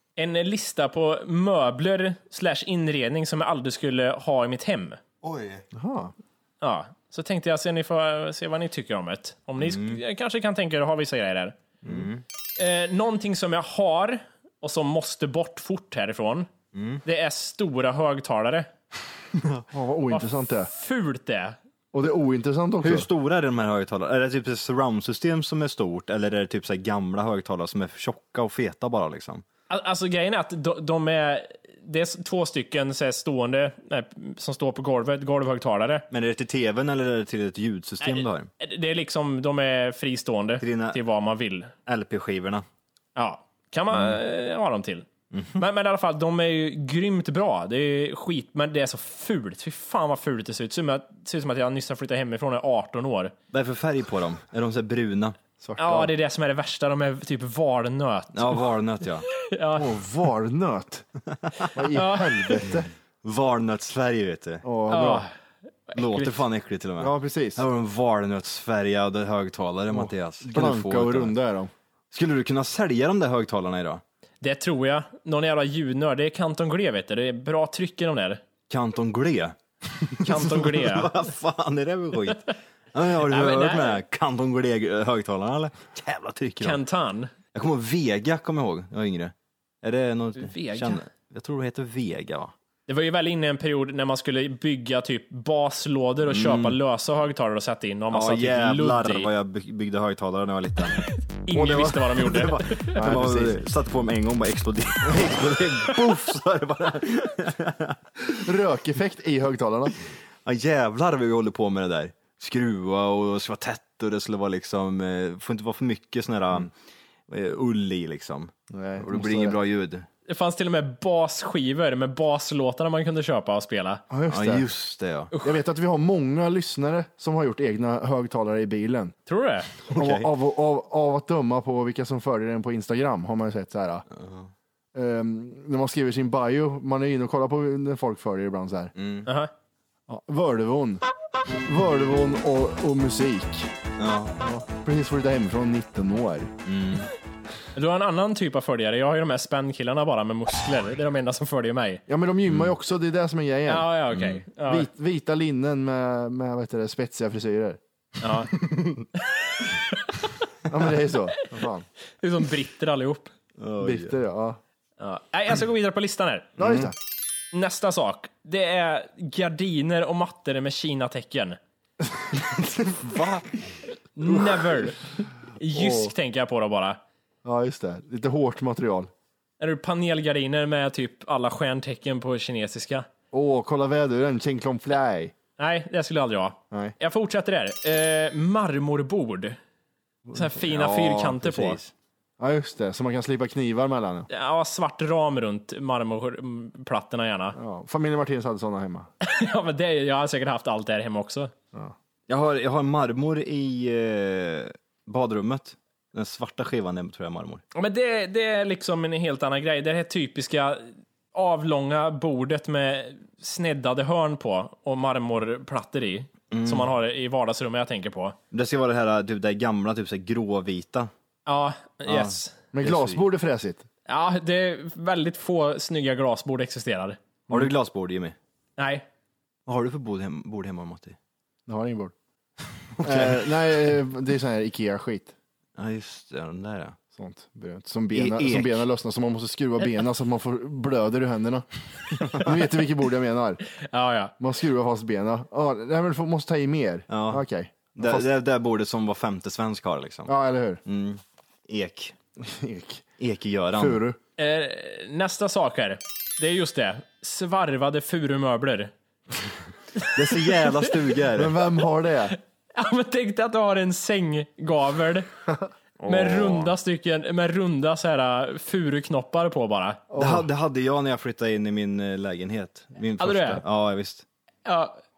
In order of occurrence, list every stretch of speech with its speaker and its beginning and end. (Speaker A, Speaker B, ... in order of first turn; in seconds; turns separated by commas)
Speaker A: 0.2-5.0, Speaker B: 5.2-5.7, Speaker C: 5.7-6.1, Speaker A: 6.6-11.6, Speaker B: 9.6-10.0, Speaker C: 11.8-12.1, Speaker B: 11.8-12.2, Speaker A: 12.6-16.5, Speaker B: 16.7-17.0, Speaker A: 17.0-18.7, Speaker B: 19.3-19.6, Speaker C: 19.7-20.7, Speaker A: 20.1-21.6, Speaker C: 21.9-23.1, Speaker B: 22.8-29.4, Speaker A: 29.7-36.0, Speaker B: 36.1-38.5, Speaker A: 38.0-41.7, Speaker B: 40.6-41.0, Speaker B: 41.9-42.6, Speaker A: 43.1-53.3, Speaker B: 53.5-55.4, Speaker C: 55.6-56.1, Speaker A: 55.8-58.6, Speaker B: 58.3-59.3, Speaker A: 59.3-59.9, Speaker C: 59.8-61.0, Speaker C: 61.7-62.9, Speaker A: 61.9-62.6, Speaker B: 63.2-64.6, Speaker C: 64.6-65.2, Speaker A: 64.9-65.3, Speaker A: 65.9-66.4, Speaker B: 65.9-71.3, Speaker C: 67.0-67.6, Speaker C: 69.9-71.7, Speaker B: 72.1-74.0, Speaker A: 74.4-78.4, Speaker B: 78.7-86.8, Speaker A: 80.2-81.1, Speaker A: 83.2-84.0, Speaker A: 86.6-87.3, Speaker B: 87.5-92.5, Speaker A: 90.3-91.0, Speaker A: 92.9-99.3, Speaker B: 96.3-96.8, Speaker B: 98.1-108.0, Speaker A: 101.5-102.9, Speaker C: 102.9-103.6, Speaker C: 108.3-110.0, Speaker B: 110.4-116.7, Speaker B: 117.3-120.0, Speaker C: 118.7-119.6, Speaker A: 120.3-124.0, Speaker C: 124.1-124.7, Speaker B: 124.3-125.3, Speaker A: 125.3-125.6, Speaker C: 125.4-129.1, Speaker A: 129.3-129.7, Speaker B: 129.8-130.3, Speaker C: 129.9-134.1, Speaker B: 134.1-134.5, Speaker C: 134.9-138.9, Speaker B: 138.9-139.3, Speaker A: 139.2-139.5, Speaker C: 140.1-141.0, Speaker C: 141.6-143.7, Speaker B: 144.0-144.4, Speaker C: 144.4-146.5, Speaker B: 146.6-147.1, Speaker A: 147.7-152.0, Speaker C: 152.1-153.9, Speaker B: 152.5-152.7, Speaker A: 153.7-154.9, Speaker B: 154.1-154.4, Speaker C: 154.7-157.8, Speaker A: 158.2-158.5, Speaker B: 158.5-159.1, Speaker A: 159.2-160.3, Speaker C: 160.7-161.9, Speaker A: 162.2-163.3, Speaker B: 163.6-164.2, Speaker C: 163.8-164.6, Speaker A: 165.0-166.5, Speaker C: 166.6-166.9, Speaker B: 166.6-166.9, Speaker A: 167.5-171.6, Speaker C: 172.3-173.3, Speaker B: 173.0-173.3, Speaker A: 174.2-177.0, Speaker C: 175.7-176.1, Speaker C: 177.4-179.1, Speaker A: 179.6-183.1, Speaker C: 183.3-185.3, Speaker A: 185.6-189.6, Speaker A: 190.3-191.8, Speaker B: 190.7-191.9, Speaker C: 192.4-194.3, Speaker A: 194.3-197.6, Speaker C: 197.5-199.1, Speaker A: 199.2-201.5, Speaker B: 202.3-207.6, Speaker A: 207.7-218.3, Speaker B: 216.5-216.9, Speaker B: 218.5-221.1, Speaker A: 221.4-222.6, Speaker B: 222.1-223.2, Speaker C: 222.7-223.8, Speaker A: 224.1-227.2, Speaker B: 227.5-228.3, Speaker A: 228.8-229.1, Speaker B: 229.7-231.2, Speaker C: 231.7-232.1, Speaker B: 232.9-233.5, Speaker C: 233.0-235.3, Speaker B: 235.8-237.0, Speaker C: 237.1-243.6, Speaker B: 238.1-238.8, Speaker B: 242.2-242.6, Speaker A: 243.8-244.3, Speaker C: 244.4-248.2, Speaker B: 247.1-247.4, Speaker B: 248.0-250.3, Speaker C: 250.2-250.8, Speaker B: 250.8-252.1, Speaker C: 252.4-253.0, Speaker B: 253.2-254.0, Speaker C: 253.7-254.2, Speaker A: 254.4-258.9, Speaker A: 259.9-260.9, Speaker B: 260.1-261.6, Speaker C: 261.3-262.4, Speaker A: 262.7-265.3, Speaker A: 266.0-270.0, Speaker B: 266.1-266.7, Speaker C: 270.1-270.5, Speaker B: 270.1-274.2, Speaker A: 273.2-273.6, Speaker A: 274.6-275.0